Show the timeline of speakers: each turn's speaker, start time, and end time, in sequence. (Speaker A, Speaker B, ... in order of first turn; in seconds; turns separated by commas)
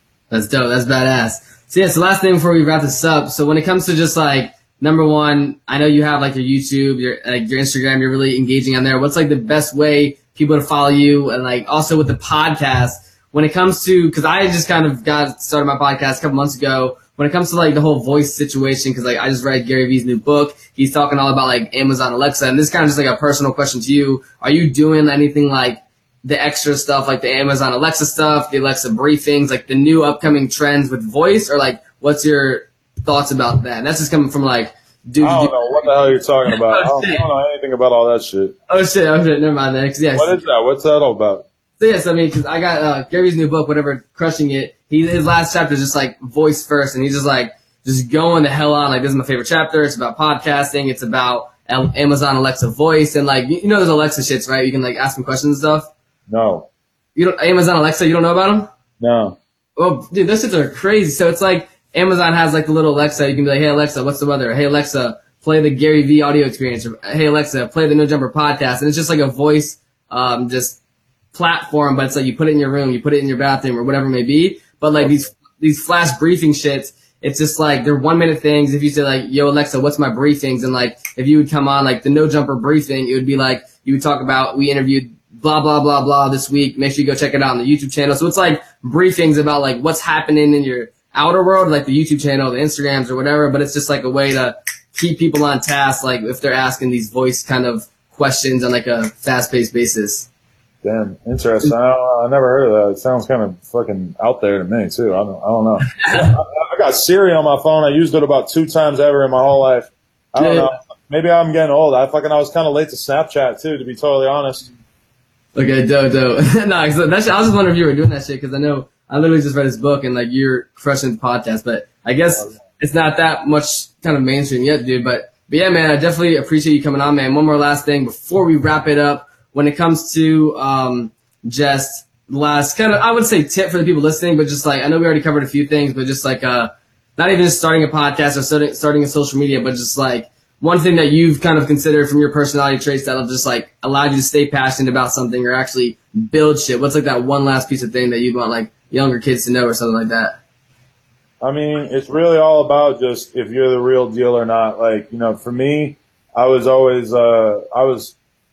Speaker A: 0.3-37.2, Speaker B: 35.2-38.5, Speaker A: 38.7-40.4, Speaker B: 40.1-41.5, Speaker A: 41.8-55.9, Speaker B: 56.3-56.7, Speaker A: 57.1-58.7, Speaker B: 59.0-59.4, Speaker A: 59.8-70.8, Speaker A: 71.3-100.3, Speaker B: 100.8-114.7, Speaker A: 106.0-106.3, Speaker A: 110.4-110.7, Speaker A: 115.5-150.4, Speaker B: 151.4-158.1